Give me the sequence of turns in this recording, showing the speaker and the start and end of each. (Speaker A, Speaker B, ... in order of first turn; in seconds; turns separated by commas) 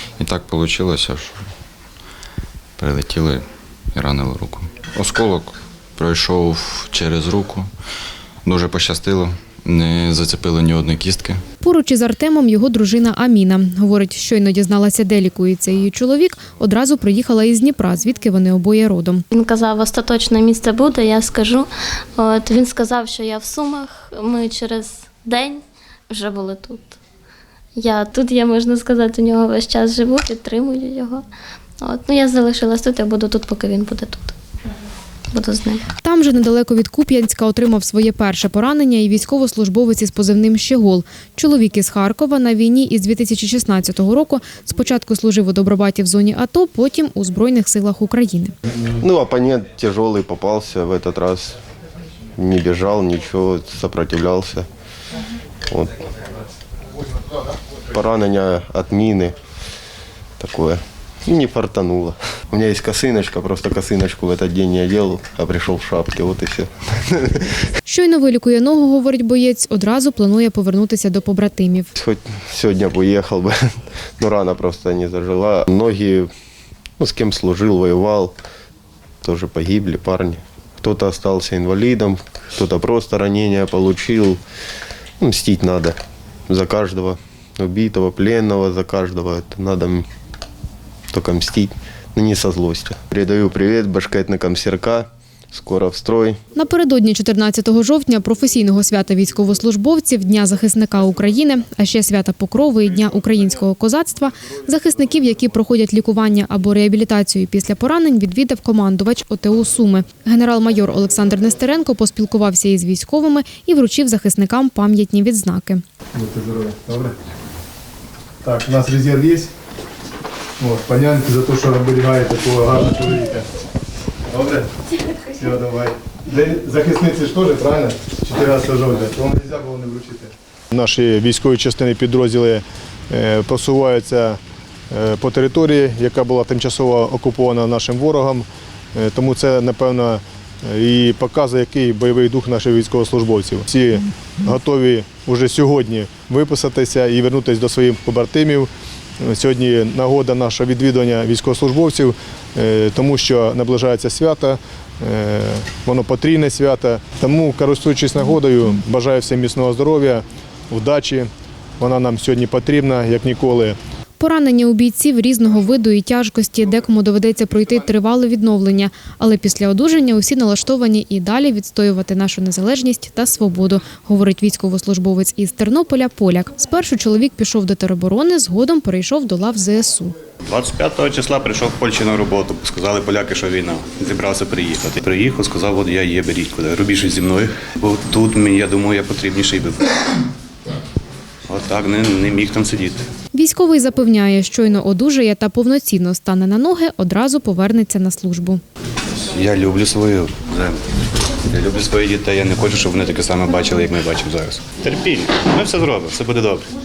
Speaker A: 0.2-1.4, Speaker A: 2.8-7.7, Speaker A: 8.4-11.4, Speaker B: 11.6-19.2, Speaker C: 19.3-26.9, Speaker C: 27.8-31.2, Speaker C: 31.8-34.3, Speaker C: 35.3-35.8, Speaker B: 36.0-48.5, Speaker D: 49.0-51.6, Speaker D: 52.4-54.7, Speaker D: 55.7-56.0, Speaker D: 57.9-59.4, Speaker D: 60.4-67.5, Speaker B: 67.9-71.9, Speaker D: 72.0-76.3, Speaker D: 77.0-78.3, Speaker D: 79.2-84.4, Speaker D: 85.2-86.0, Speaker D: 86.5-90.1, Speaker D: 91.1-96.4, Speaker B: 96.5-115.8, Speaker E: 116.1-117.2, Speaker E: 118.4-119.5, Speaker E: 120.6-123.5, Speaker E: 124.3-124.7, Speaker E: 125.2-134.4, Speaker E: 134.9-163.8, Speaker B: 164.2-180.1, Speaker F: 180.5-189.8, Speaker F: 191.5-193.0, Speaker B: 193.3-198.6, Speaker F: 199.3-200.8, Speaker F: 201.5-206.7